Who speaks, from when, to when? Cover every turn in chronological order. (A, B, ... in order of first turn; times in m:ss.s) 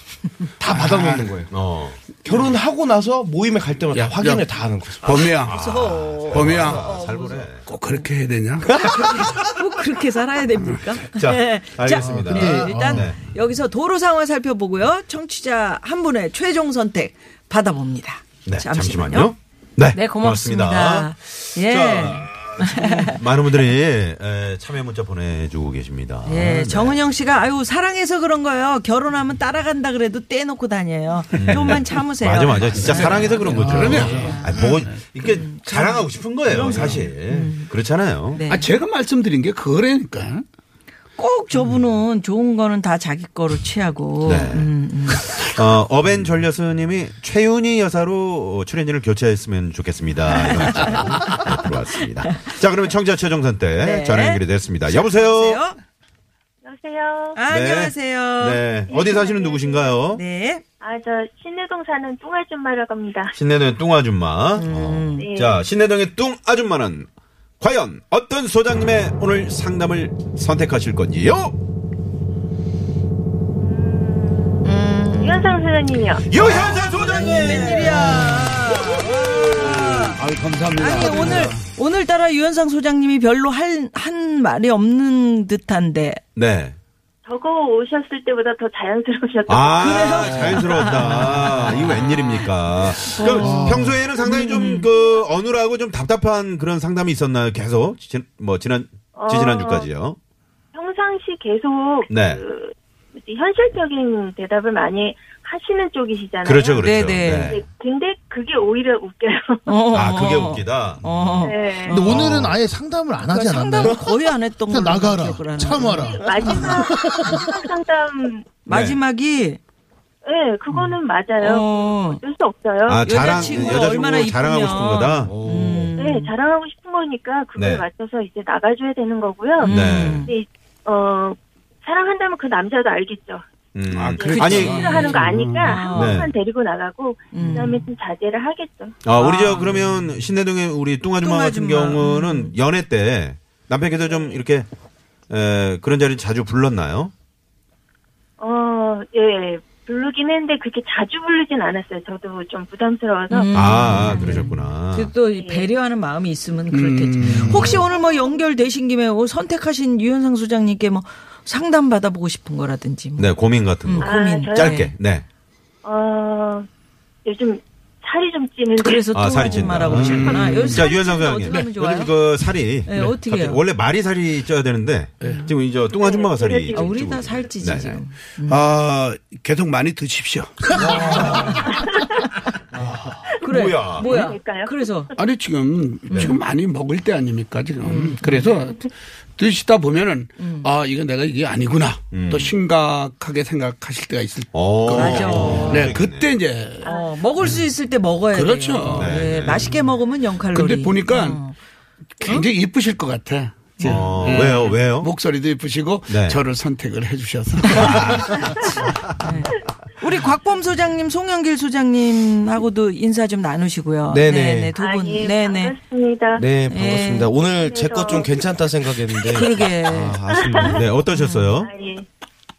0:00.6-0:01.5 A
0:00.7-0:01.3 B
0:01.5-0:02.6 C
0:02.2-0:05.3 A
0:03.9-0:04.5 B
0:05.0-0:05.5 B
0:05.1-0:07.7 C
0:05.4-0:08.1 D
0:06.3-0:06.9 B
0:07.7-0:08.8 B
0:08.6-0:09.3 A
0:08.7-0:19.3 D
0:11.1-0:13.2 C
0:11.9-0:13.1 E
0:18.5-0:27.0 C
0:19.9-0:23.2 D
0:26.2-0:34.5 D
0:31.3-0:38.4 C
0:32.7-0:35.0 B
0:33.5-0:34.3 E
0:35.2-0:37.7 D
0:36.5-0:37.0 B
0:38.3-0:38.7 D
0:38.4-0:40.4 B
0:41.2-0:45.4 D
0:44.2-0:44.7 C
0:45.2-0:45.5 B
0:45.5-0:55.6 C
0:50.7-0:51.5 D
0:53.8-0:55.8 D
0:56.6-0:57.4 F
0:57.4-0:58.6 D
0:57.5-1:00.2 C
0:58.9-0:59.9 F
1:00.1-1:00.6 D
1:00.8-1:03.4 F
1:03.4-1:07.1 C
1:04.6-1:05.3 D
1:05.1-1:05.6 F
1:07.6-1:11.6 C
1:13.6-1:16.8 F
1:14.6-1:15.6 D
1:16.2-1:18.1 C
1:16.8-1:20.2 D
1:17.9-1:18.6 B
1:18.7-1:20.1 C
1:19.6-1:21.6 B
1:20.8-1:26.2 D
1:26.4-1:26.8 C
1:27.2-1:30.7 F
1:29.5-1:40.2 C
1:29.8-1:32.5 D
1:33.1-1:34.9 D
1:33.2-1:34.0 E
1:39.2-1:39.9 F
1:40.7-1:49.6 F
1:42.1-1:42.4 C
1:46.4-1:47.6 C
1:46.8-1:47.6 D
1:49.7-1:52.2 D
1:49.9-1:51.4 C
1:51.4-1:52.0 F
1:51.8-1:54.1 E
1:52.0-1:52.6 C
1:53.2-1:56.5 D
1:54.7-1:56.8 E
1:56.2-1:58.6 F
1:58.6-1:59.0 C
1:58.6-1:59.6 D
2:00.2-2:03.9 F
2:01.4-2:02.2 D
2:02.9-2:05.4 C
2:03.0-2:06.3 D
2:05.3-2:05.9 A
2:06.0-2:09.7 F
2:07.6-2:07.9 C
2:09.6-2:10.3 D
2:09.6-2:10.3 C
2:10.2-2:13.4 F
2:13.8-2:15.1 C
2:13.9-2:15.9 B
2:14.1-2:19.0 F
2:14.3-2:15.1 D
2:15.6-2:16.2 D
2:15.9-2:16.4 C
2:17.3-2:17.9 D
2:19.0-2:24.7 C
2:19.2-2:19.9 D
2:21.2-2:22.5 D
2:25.3-2:27.1 C
2:28.4-2:33.5 F
2:33.3-2:43.3 D
2:33.5-2:35.1 C
2:35.2-2:35.7 F
2:36.7-2:37.8 B
2:37.2-2:37.8 E
2:37.9-2:38.4 F
2:43.2-2:45.2 C
2:43.8-2:44.9 D
2:44.0-2:44.8 F
2:45.8-2:46.6 F
2:47.2-2:50.4 F
2:48.8-2:52.1 D
2:49.1-2:58.0 C
2:49.8-2:50.9 B
2:52.9-2:53.6 D
2:52.9-2:53.2 B
2:55.9-2:57.4 F
2:56.8-2:58.6 D
2:58.5-3:01.9 B
3:00.8-3:01.8 D
3:01.6-3:02.1 F
3:02.8-3:03.3 B
3:03.4-3:05.1 D
3:03.5-3:04.1 C
3:03.9-3:05.1 F
3:05.2-3:17.5 B
3:06.1-3:06.4 D
3:07.8-3:08.6 D
3:10.4-3:10.7 D
3:12.1-3:12.6 C
3:14.5-3:16.4 C
3:14.9-3:15.9 D
3:16.8-3:21.5 D
3:16.8-3:17.1 F
3:18.3-3:19.7 B
3:18.9-3:19.7 C
3:20.5-3:21.4 B
3:22.2-3:28.8 B
3:22.2-3:22.5 D
3:23.8-3:25.1 C
3:26.1-3:26.4 C
3:27.7-3:35.8 D
3:27.9-3:28.3 C
3:34.1-3:34.7 A
3:34.8-3:36.5 F
3:36.4-3:40.9 A
3:36.7-3:37.3 D
3:37.3-3:38.5 F
3:39.3-3:40.2 D
3:40.4-3:40.8 F
3:40.8-3:41.7 C
3:41.1-3:41.6 D
3:41.6-3:42.0 F